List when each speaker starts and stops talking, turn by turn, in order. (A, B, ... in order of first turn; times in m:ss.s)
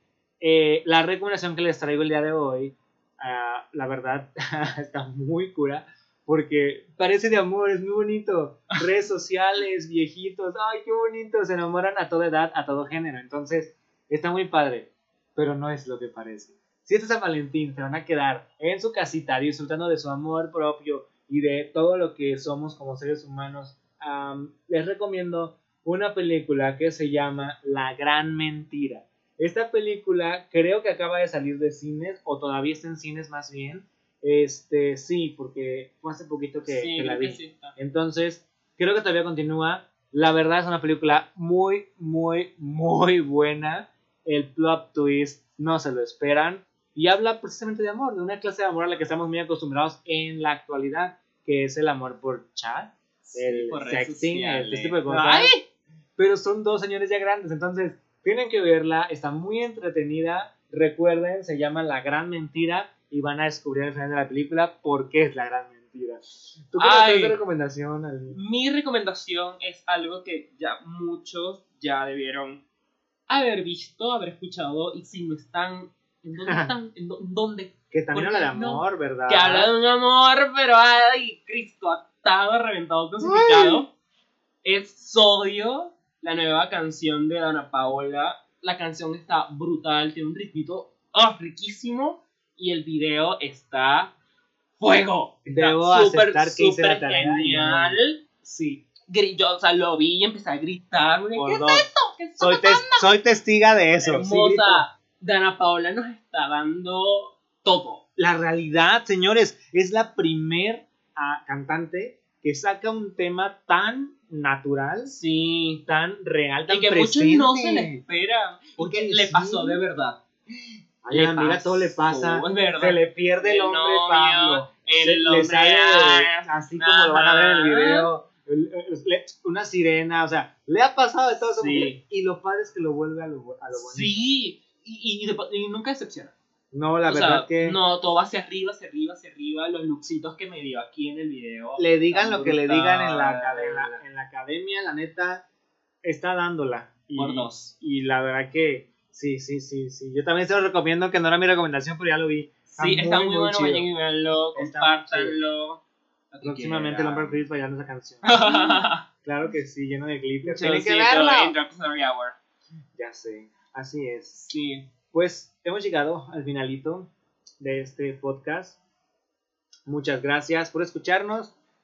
0:00.4-0:55.6 A
0:36.7-0:37.8 B
0:53.2-0:55.6 B
0:56.2-1:08.4 A
1:06.8-1:07.4 B
1:08.3-1:12.6 B
1:13.3-1:23.9 B
1:17.9-1:19.7 A
1:23.2-1:23.8 A
1:24.6-1:34.1 B
1:34.8-1:38.2 B
1:35.5-1:38.8 A
1:39.1-1:43.1 B
1:41.4-1:44.9 A
1:44.0-1:48.0 B
1:48.2-1:55.1 A
1:55.1-1:55.8 B
1:55.9-1:58.0 A
1:56.7-2:00.2 B
1:58.8-1:59.8 A
2:01.0-2:14.3 A
2:01.1-2:08.1 B
2:11.6-2:12.0 B
2:13.8-2:16.4 B
2:16.7-2:17.8 A
2:17.1-2:24.0 B
2:21.8-2:25.4 A
2:26.0-2:33.9 A
2:27.2-2:27.7 B
2:32.8-2:35.8 B
2:34.6-2:35.4 A
2:36.3-2:37.4 B
2:36.4-2:41.6 A
2:38.2-2:39.0 B
2:40.4-2:42.4 B
2:43.0-2:44.4 A
2:44.4-2:44.9 B
2:45.1-2:48.8 A
2:49.9-2:51.5 A